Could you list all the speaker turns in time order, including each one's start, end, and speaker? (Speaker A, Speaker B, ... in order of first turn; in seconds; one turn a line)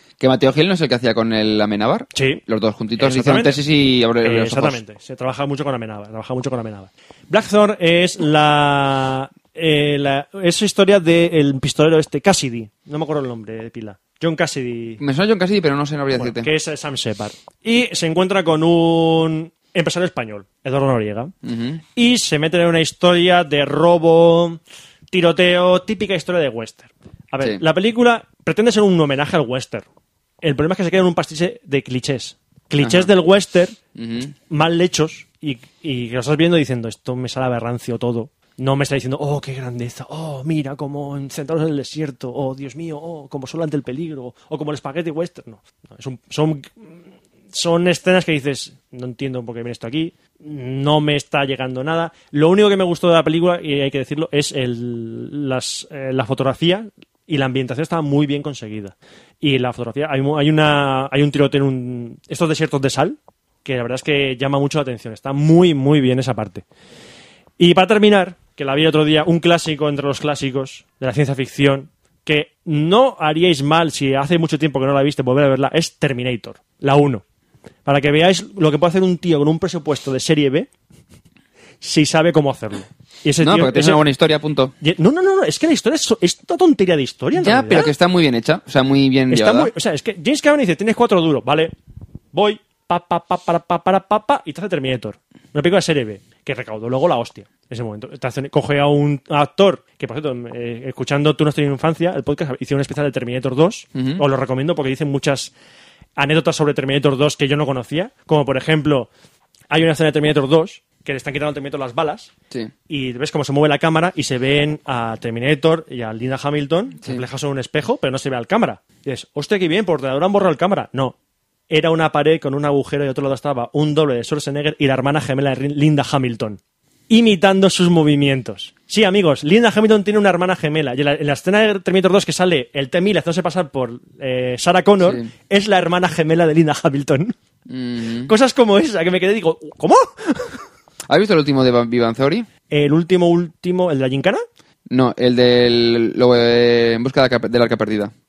Speaker A: 0.2-4.8
Speaker B: 2.1-2.4
Speaker B: 3.0-3.6
Speaker B: 4.2-15.0
Speaker A: 15.0-16.5
Speaker B: 16.1-21.3
Speaker A: 21.4-21.8
Speaker B: 21.9-24.6
Speaker B: 25.1-29.9
Speaker B: 30.4-33.8
Speaker A: 32.8-33.1
Speaker A: 34.0-34.3
Speaker B: 34.5-66.7
Speaker B: 67.6-77.2
Speaker B: 77.8-80.7
Speaker B: 81.8-84.0
Speaker A: 83.4-84.7
Speaker B: 84.8-87.9
Speaker A: 87.3-89.7
Speaker B: 89.3-91.7
Speaker B: 92.3-105.5
Speaker A: 104.0-104.2
Speaker B: 106.2-109.1
Speaker B: 109.7-112.3
Speaker B: 112.9-121.2
Speaker B: 121.7-137.4
Speaker A: 135.0-135.3
Speaker A: 137.7-138.3
Speaker B: 138.3-140.7
Speaker A: 141.1-142.5
Speaker B: 142.7-144.4
Speaker A: 144.9-148.1